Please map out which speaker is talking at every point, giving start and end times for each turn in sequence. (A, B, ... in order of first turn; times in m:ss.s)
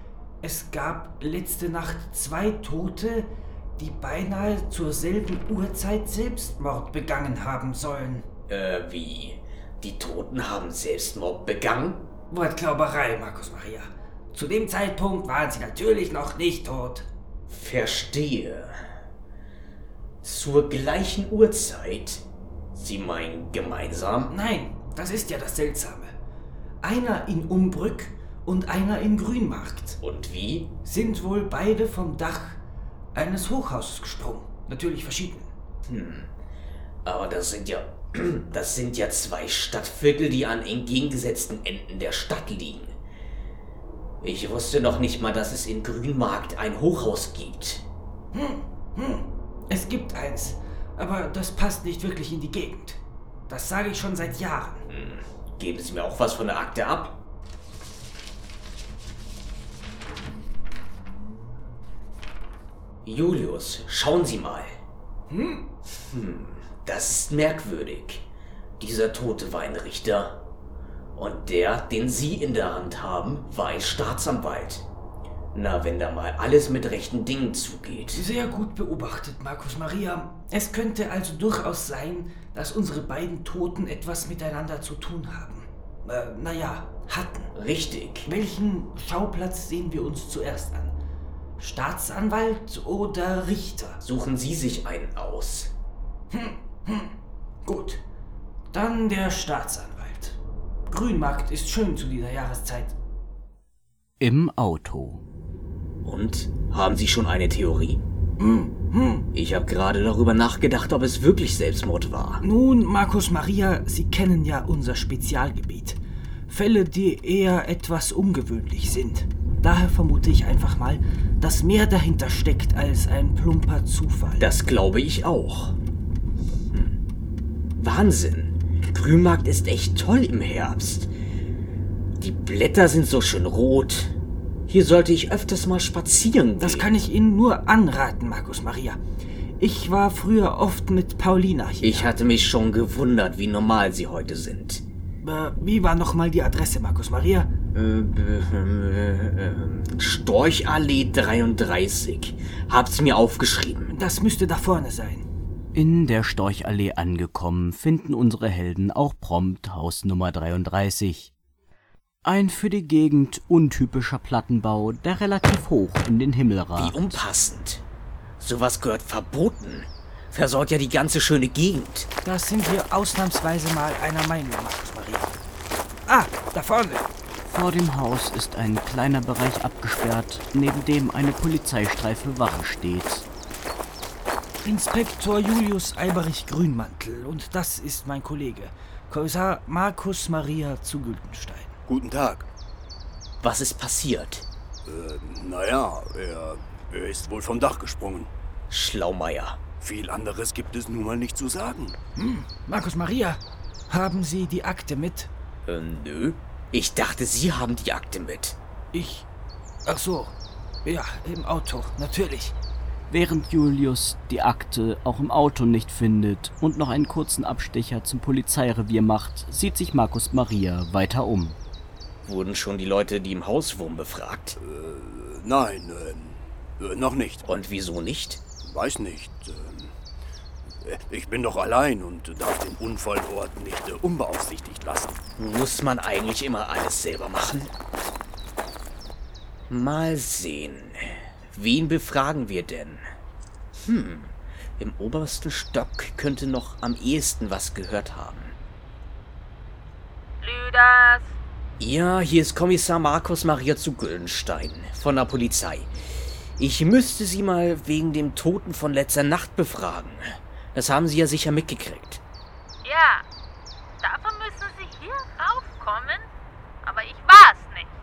0:00.4-0:08.2 A
0:08.5-0:12.1 B
0:12.3-0:17.1 A
0:17.5-0:18.8 B
0:20.2-0:22.2 B
0:22.7-0:24.3 B
0:24.3-0:26.1 A
0:26.8-0:30.0 A
0:30.0-0:30.7 B
0:30.8-0:32.6 A
0:33.1-0:35.5 A
0:35.9-0:36.3 B
0:37.0-0:42.9 B
0:44.2-0:47.8 B
0:48.3-0:54.8 A
0:54.9-0:57.2 B
1:03.0-1:04.8 B
1:05.3-1:05.6 A
1:06.0-1:08.2 B
1:08.8-1:10.4 B
1:11.2-1:14.8 B
1:15.5-1:18.2 B
1:18.1-1:27.5 A
1:27.5-1:28.3 B
1:28.2-1:30.9 A
1:31.6-1:34.0 A
1:34.0-1:35.7 B
1:36.3-1:37.1 A
1:37.6-1:38.0 A
1:38.7-1:40.4 A
1:40.9-1:42.9 A
1:44.2-1:45.2 C
1:46.0-1:48.0 B
1:48.4-1:49.3 A
1:49.3-1:52.4 B
1:52.4-2:04.5 A
2:04.4-2:05.8 B
2:07.8-2:11.1 B
2:12.2-2:14.1 B
2:14.7-2:16.9 B
2:16.6-2:19.0 A
2:19.6-2:22.1 A
2:21.8-2:24.8 B
2:25.2-2:27.5 A
2:27.7-2:33.9 B
2:33.9-2:35.2 A
2:35.7-2:41.3 C
2:42.2-2:47.2 C
2:46.8-2:47.8 B
2:48.4-2:52.1 B
2:52.2-2:55.3 A
2:56.1-2:57.1 A
2:57.4-3:03.2 C
3:04.6-3:11.7 A
3:11.8-3:12.4 D
3:13.4-3:14.4 B
3:14.8-3:18.3 D
3:18.7-3:19.6 B
3:19.8-3:22.0 D
3:22.2-3:25.3 A
3:25.6-3:28.6 B
3:28.9-3:29.3 A
3:29.8-3:32.6 A
3:33.1-3:41.6 C
3:42.2-3:44.6 B
3:44.6-3:47.4 D
3:47.4-3:48.4 B
3:48.6-3:49.9 D
3:50.8-3:55.2 D
3:55.4-3:57.7 B
3:59.7-4:03.0 B
4:03.8-4:08.6 B
4:10.4-4:11.3 E
4:11.8-4:15.9 B
4:16.6-4:22.2 B
4:22.8-4:23.2 E
4:24.0-4:26.3 E
4:26.8-4:27.9 E